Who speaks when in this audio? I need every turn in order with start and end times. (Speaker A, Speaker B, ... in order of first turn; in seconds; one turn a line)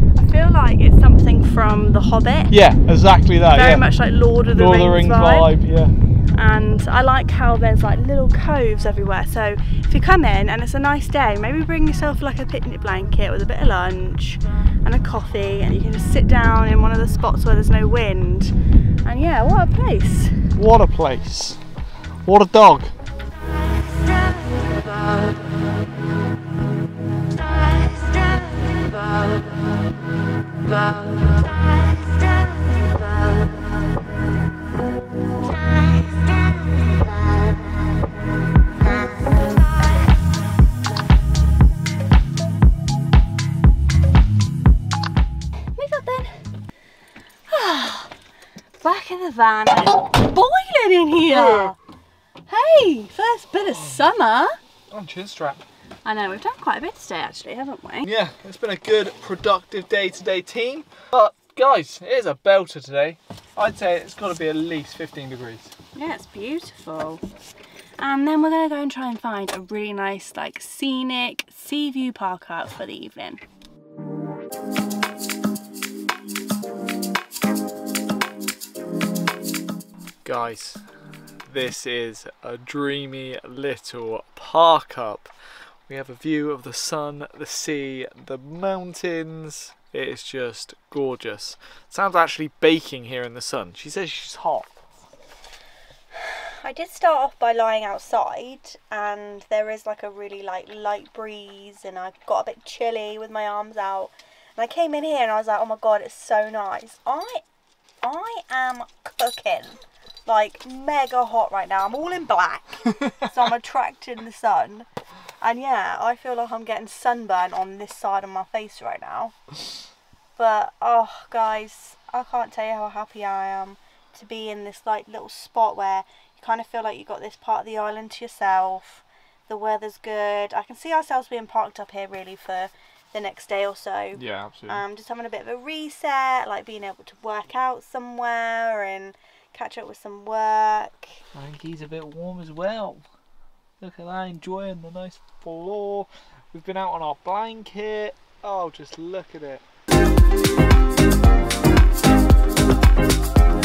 Speaker A: 0.2-2.5
Speaker B: 2.5-3.9
Speaker A: 3.5-5.5
Speaker B: 4.5-6.0
Speaker A: 6.3-18.5
Speaker A: 19.1-20.5
Speaker B: 20.6-21.6
Speaker B: 22.2-22.9
Speaker A: 45.8-46.4
Speaker A: 47.5-48.1
Speaker A: 48.8-51.8
Speaker B: 51.3-51.7
Speaker A: 52.5-54.6
Speaker B: 54.9-55.6
Speaker A: 56.0-58.1
Speaker B: 58.0-65.7
Speaker A: 66.0-67.2
Speaker A: 68.0-73.4
Speaker B: 80.2-80.8
Speaker B: 81.5-85.3
Speaker B: 85.9-94.8
Speaker A: 96.5-107.4
Speaker A: 108.0-114.9
Speaker A: 115.4-119.3
Speaker A: 120.4-141.2
Speaker B: 134.2-134.8
Speaker B: 141.3-143.0
Speaker B: 143.8-149.6